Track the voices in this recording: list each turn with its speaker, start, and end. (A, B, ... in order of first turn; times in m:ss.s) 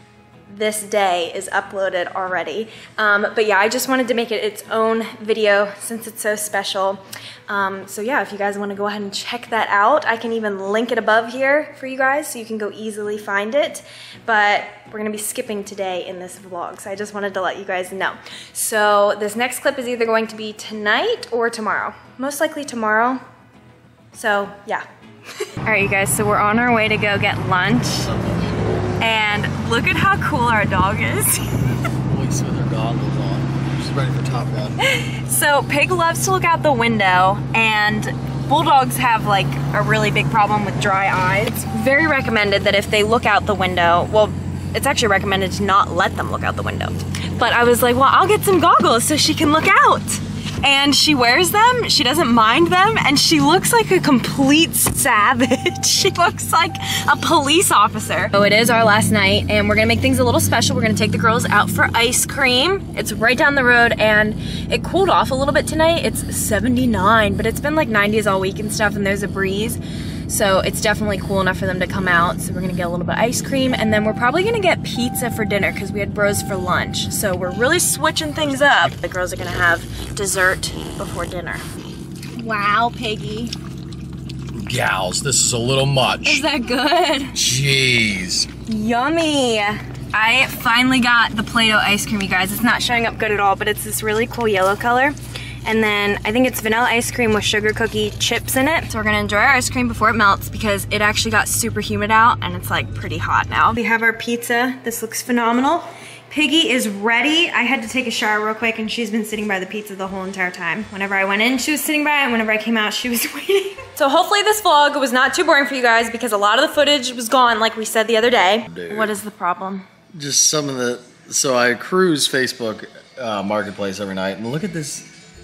0:00.5-0:23.2 A
0:24.1-0:24.8 A
0:25.6-0:28.1 A
0:28.0-0:28.6 B
0:29.0-0:31.8 A
0:32.0-0:34.8 B
0:34.8-1:21.7 A
1:22.4-1:23.5 A
1:24.6-1:26.4 B
1:26.2-1:27.4 A
1:27.4-1:28.5 B
1:28.7-1:59.8 A
1:58.7-1:59.2 B
2:00.2-2:05.1 B